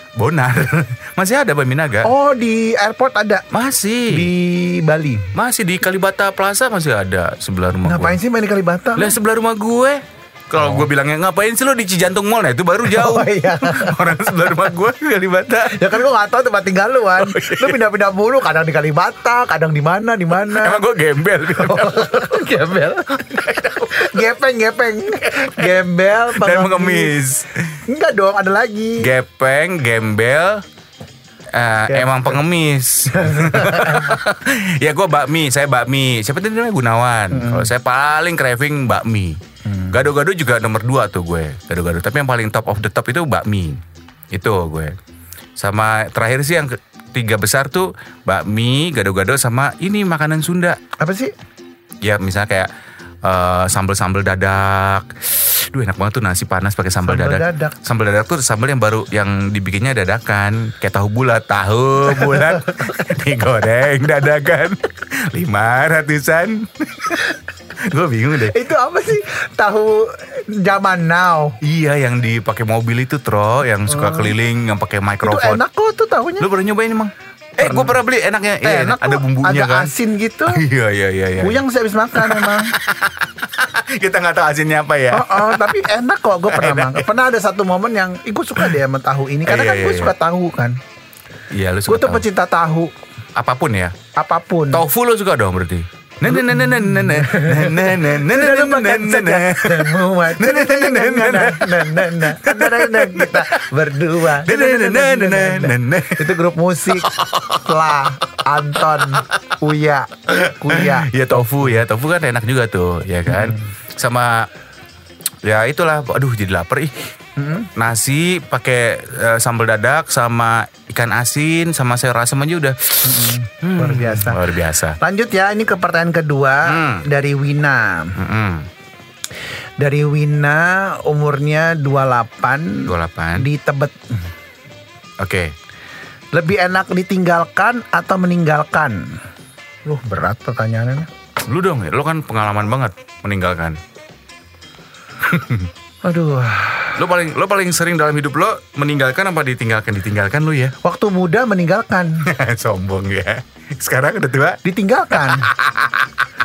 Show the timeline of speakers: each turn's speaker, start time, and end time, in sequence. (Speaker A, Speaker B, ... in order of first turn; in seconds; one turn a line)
Speaker A: 0.1-2.1
Speaker B: 2.0-3.5
Speaker A: 3.5-4.3
Speaker B: 4.1-5.3
Speaker A: 5.3-8.2
Speaker B: 7.9-9.1
Speaker A: 9.0-16.0
Speaker B: 10.6-10.9
Speaker B: 12.8-14.1
Speaker B: 15.6-20.8
Speaker A: 17.2-17.8
Speaker A: 20.4-22.6
Speaker B: 21.5-27.2
Speaker A: 23.1-24.2
Speaker A: 25.3-25.7
Speaker A: 26.3-27.8
Speaker B: 27.9-29.1
Speaker A: 29.0-30.6
Speaker A: 31.5-45.0
Speaker B: 31.9-32.4
Speaker B: 33.1-34.2
Speaker B: 37.3-37.7
Speaker B: 39.6-40.0
Speaker A: 45.6-50.8
Speaker B: 51.0-51.3
Speaker A: 52.0-52.7
Speaker A: 53.2-67.2
Speaker B: 57.0-57.8
Speaker A: 67.8-68.6
Speaker B: 68.4-71.6
Speaker A: 71.6-75.6
Speaker B: 73.9-74.3
Speaker B: 75.2-76.5
Speaker A: 76.4-79.9
Speaker B: 77.6-78.0
Speaker B: 78.6-80.6
Speaker A: 80.5-81.6
Speaker B: 81.4-82.7
Speaker A: 82.1-85.8
Speaker B: 85.1-90.8
Speaker A: 86.5-87.1
Speaker A: 89.5-90.1
Speaker A: 91.5-92.2
Speaker B: 91.9-92.9
Speaker A: 93.3-94.0
Speaker B: 94.2-94.8
Speaker A: 94.7-103.6
Speaker B: 96.2-111.7
Speaker A: 104.2-106.4
Speaker A: 106.9-107.7
Speaker A: 110.3-114.5
Speaker B: 113.3-113.7
Speaker A: 115.4-117.1
Speaker B: 117.4-117.7
Speaker A: 117.8-125.0
Speaker B: 123.0-124.5
Speaker B: 125.0-128.2
Speaker A: 126.6-127.0
Speaker A: 128.2-128.7
Speaker B: 129.8-134.2
Speaker A: 132.9-133.5
Speaker A: 135.2-135.5
Speaker B: 136.3-139.2
Speaker B: 139.8-141.1
Speaker A: 141.5-143.8
Speaker A: 145.2-145.7
Speaker B: 146.0-147.0
Speaker A: 147.0-150.8
Speaker B: 150.8-152.3
Speaker A: 152.2-154.6
Speaker B: 154.6-155.5
Speaker A: 155.1-156.1